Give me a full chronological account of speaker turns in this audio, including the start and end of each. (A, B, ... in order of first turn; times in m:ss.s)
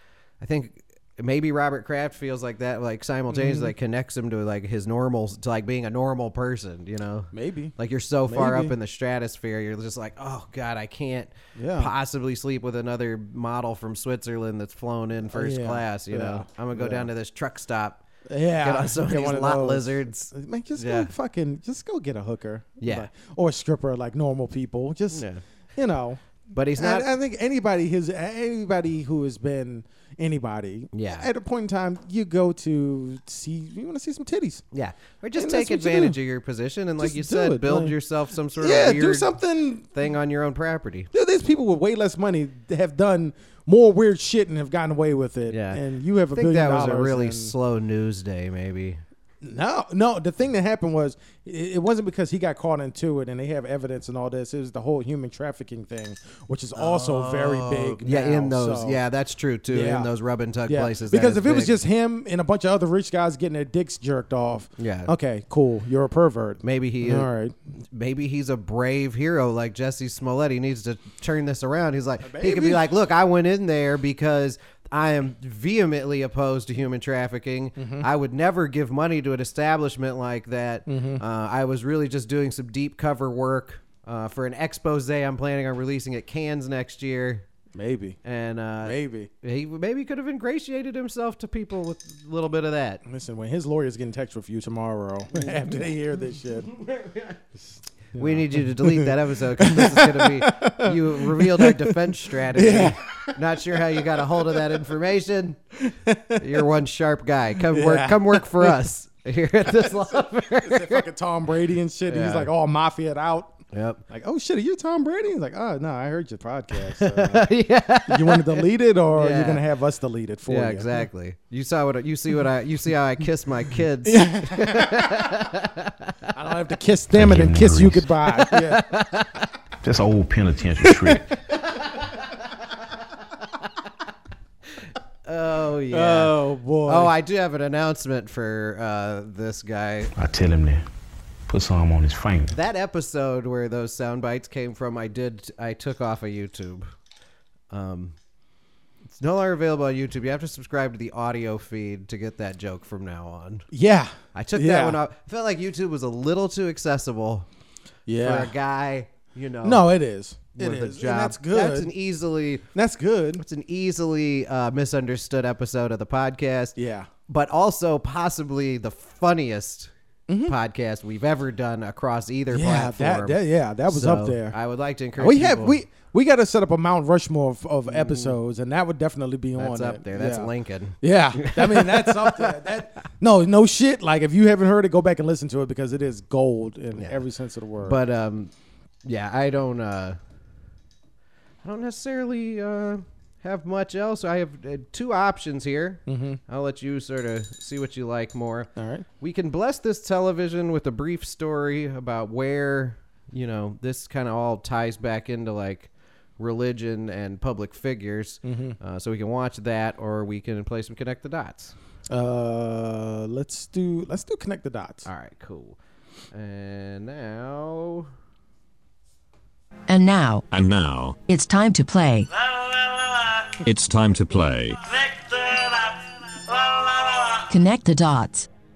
0:00.4-0:18.0 A
0:03.3-0:03.7 B
0:07.3-0:07.7 B
0:08.2-0:08.7 B
0:11.6-0:11.9 B
0:15.3-0:17.1 B
0:18.3-0:25.2 B
0:18.6-0:21.1 A
0:22.8-0:23.1 A
0:25.1-0:25.4 A
0:25.8-0:26.2 B
0:26.5-0:27.1 A
0:26.8-0:34.6 B
0:30.9-0:31.3 A
0:34.7-0:39.3 A
0:35.4-0:36.2 B
0:37.0-0:37.9 B
0:38.6-0:39.9 B
0:39.9-0:41.1 A
0:41.1-0:47.5 B
0:45.5-0:45.8 A
0:46.3-0:49.0 A
0:49.4-0:59.0 B
0:56.7-1:01.7 A
0:59.7-1:00.1 B
1:00.7-1:07.6 B
1:04.8-1:05.1 A
1:06.6-1:07.3 A
1:07.9-1:27.4 A
1:12.2-1:12.9 B
1:17.8-1:18.1 B
1:20.9-1:21.2 B
1:27.7-1:28.2 B
1:28.2-1:33.0 A
1:28.8-1:29.3 B
1:33.0-1:36.7 B
1:36.8-1:37.3 A
1:38.1-1:43.4 B
1:38.2-1:45.6 A
1:43.9-1:44.8 B
1:45.8-1:46.6 B
1:46.3-1:51.1 A
1:47.7-1:48.8 B
1:49.6-1:57.5 B
1:52.1-1:52.5 A
1:53.7-1:54.0 A
1:56.8-1:59.6 A
1:58.0-2:01.1 B
2:00.5-2:06.1 A
2:04.0-2:05.3 B
2:06.3-2:08.8 B
2:07.1-2:08.1 C
2:08.2-2:09.5 A
2:09.8-2:11.3 C
2:10.8-2:11.2 B
2:11.7-2:12.3 A
2:15.2-2:20.1 A
2:15.9-2:17.1 B
2:20.2-2:20.8 C
2:21.5-2:22.6 C
2:22.5-2:26.9 A
2:27.7-2:28.2 A
2:29.1-2:33.7 A
2:33.7-2:35.0 B
2:34.3-2:37.5 A
2:38.1-2:38.5 B
2:38.2-2:39.9 A
2:39.6-2:41.9 B
2:40.6-2:42.6 A
2:42.7-2:43.4 B
2:43.4-2:46.8 A
2:46.8-2:47.1 B
2:47.3-2:49.9 A
2:50.3-2:50.6 B
2:50.4-2:55.8 A
2:52.5-2:54.6 B
2:55.2-3:08.0 B
2:57.9-2:58.4 A
2:59.6-3:02.7 A
3:06.9-3:07.2 A
3:07.8-3:08.5 A
3:09.0-3:10.2 A
3:11.6-3:31.7 A
3:16.1-3:16.4 B
3:18.8-3:19.0 B
3:28.4-3:28.8 B
3:32.1-3:35.1 B
3:35.0-3:35.8 A
3:36.3-3:38.1 A
3:39.9-3:40.4 D
3:40.5-3:41.2 E
3:41.3-3:42.3 D
3:43.6-3:45.0 E
3:47.5-3:48.5 D